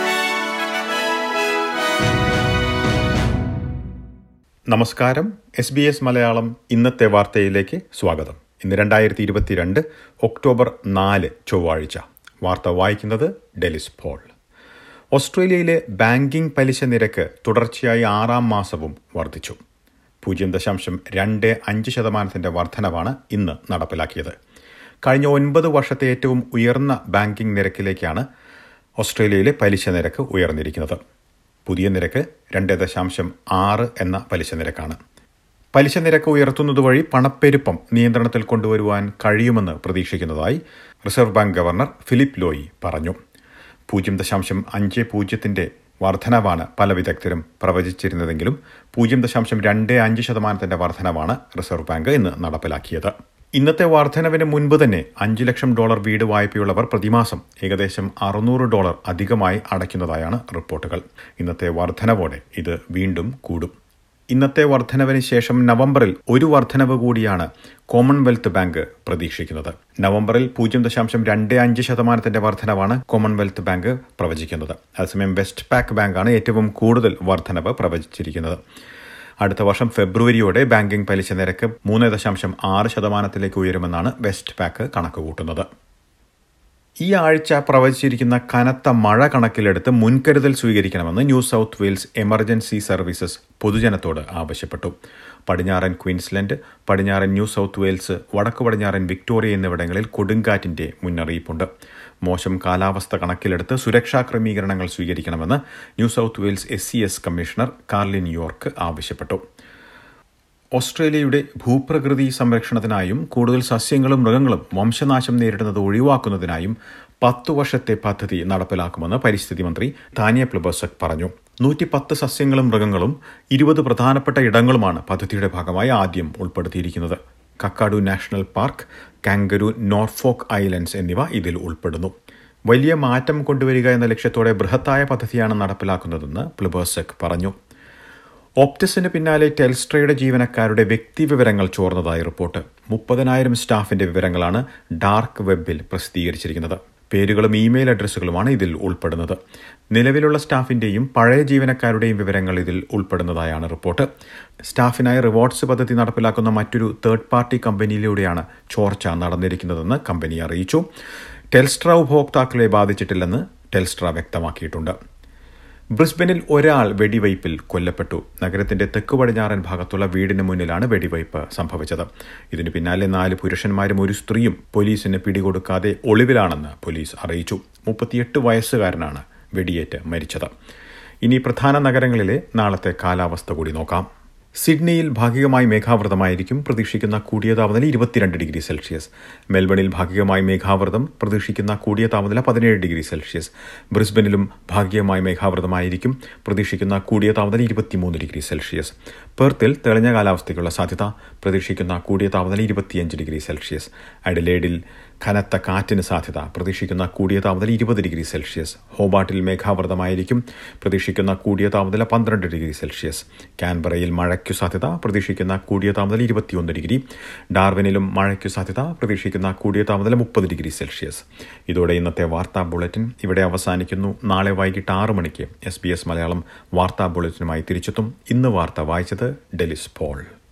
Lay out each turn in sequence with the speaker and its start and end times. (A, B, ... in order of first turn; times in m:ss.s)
0:04.7-0:14.3 A
0:15.1-0:19.6 A
0:20.2-0:24.3 A
0:25.0-0:28.2 A
0:29.0-0:31.0 A
0:31.7-0:35.0 A
0:35.7-0:43.2 A
0:43.9-1:03.7 A
1:04.3-1:18.6 A
1:19.4-1:25.7 A
1:27.0-1:34.9 A
1:35.5-1:41.7 A
1:42.2-1:49.4 A
1:50.8-2:12.1 A
2:12.7-2:17.5 A
2:18.6-2:29.4 A
2:29.9-2:34.1 A
2:34.7-2:40.8 A
2:41.5-2:45.0 A
2:46.0-3:00.5 A
3:01.2-3:04.1 A
3:04.6-3:50.3 A